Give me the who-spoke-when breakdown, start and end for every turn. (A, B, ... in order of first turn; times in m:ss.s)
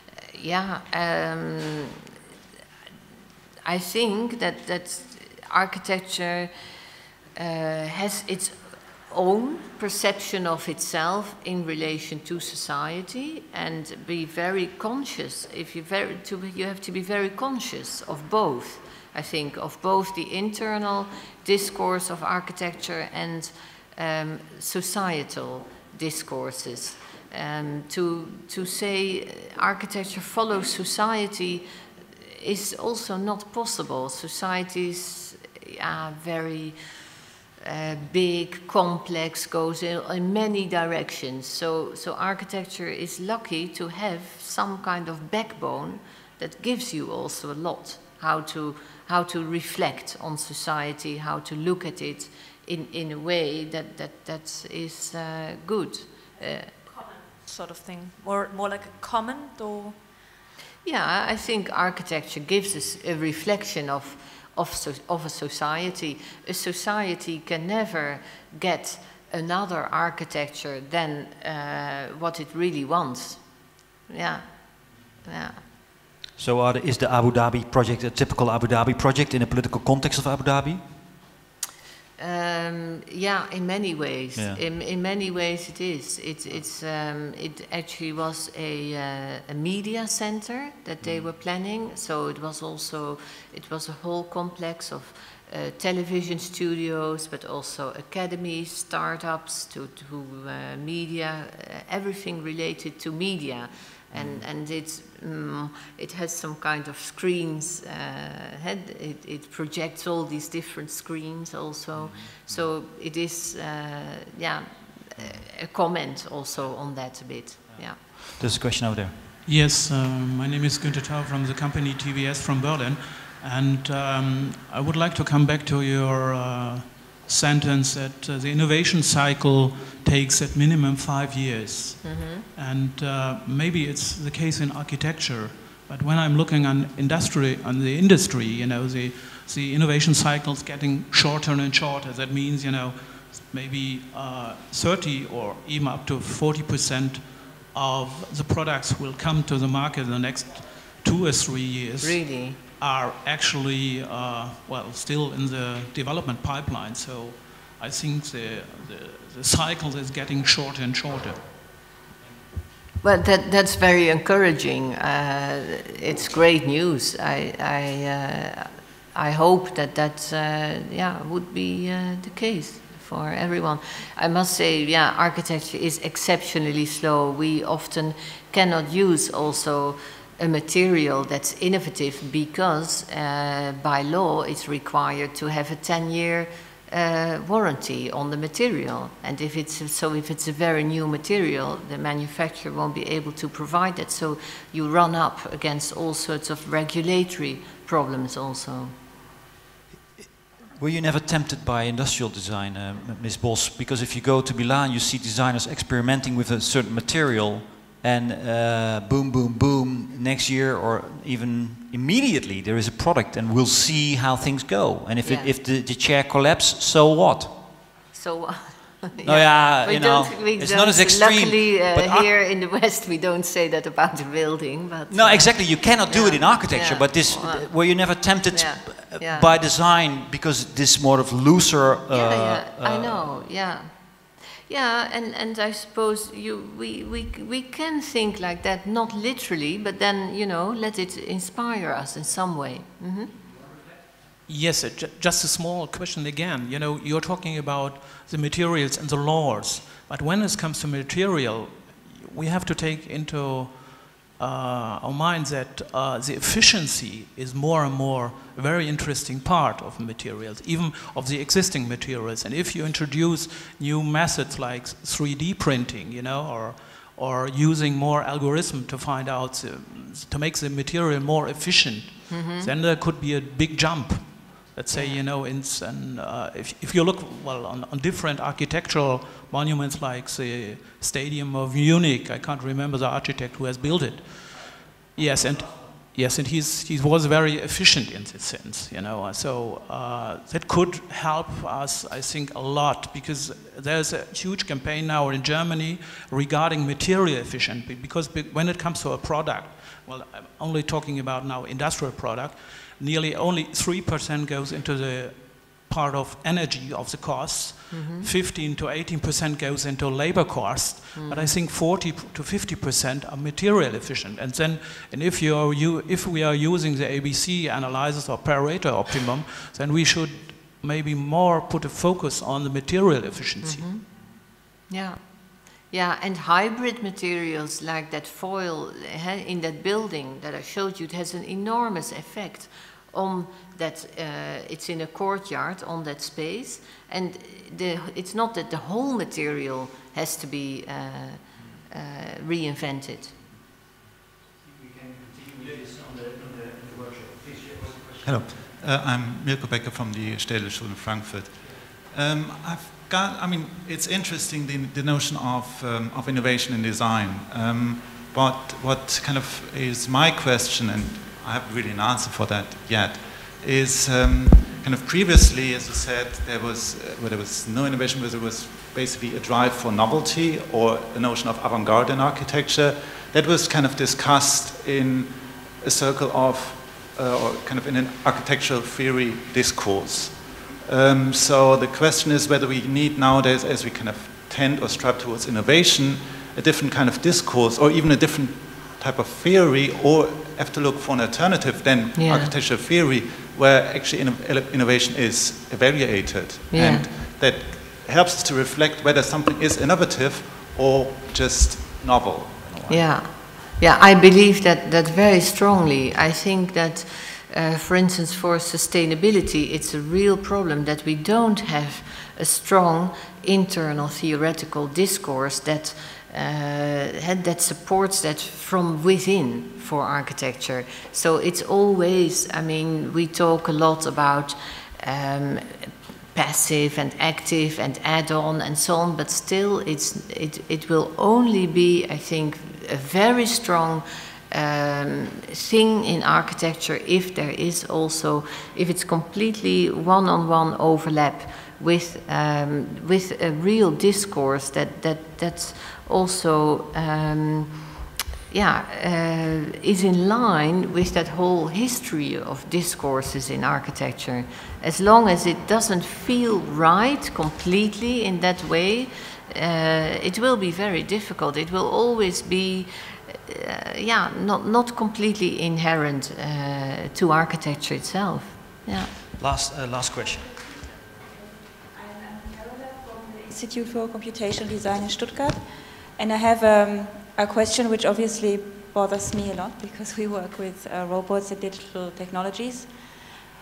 0:00.4-0:02.0 A
0:03.6-0:06.5 A
0:07.4-0:08.6 A
0:09.1-0:31.7 A
0:32.3-0:36.8 A
0:37.6-0:56.7 A
0:56.4-1:00.0 B
1:00.8-1:15.6 A
1:16.4-1:20.9 C
1:22.2-1:58.0 A
1:24.4-1:24.6 C
1:58.2-1:59.2 C
1:59.4-2:41.5 D
2:12.0-2:12.4 A
2:32.0-2:32.6 A
2:43.0-3:19.0 A
3:20.8-3:37.6 C
3:35.2-3:35.5 A
3:38.1-3:49.5 A
3:39.2-3:42.3 C
3:45.1-3:53.3 C
3:52.1-4:03.3 A
4:04.5-5:23.9 D
4:32.3-4:32.7 A
4:34.9-4:35.2 A
5:07.9-5:08.3 A
5:11.2-5:11.6 A
5:23.6-5:43.4 A
5:48.2-6:43.2 E
6:32.2-6:32.5 A
6:36.7-6:37.1 A
6:42.9-7:27.9 A
7:28.5-7:49.1 A
7:49.4-7:50.5 C
7:50.4-8:03.3 F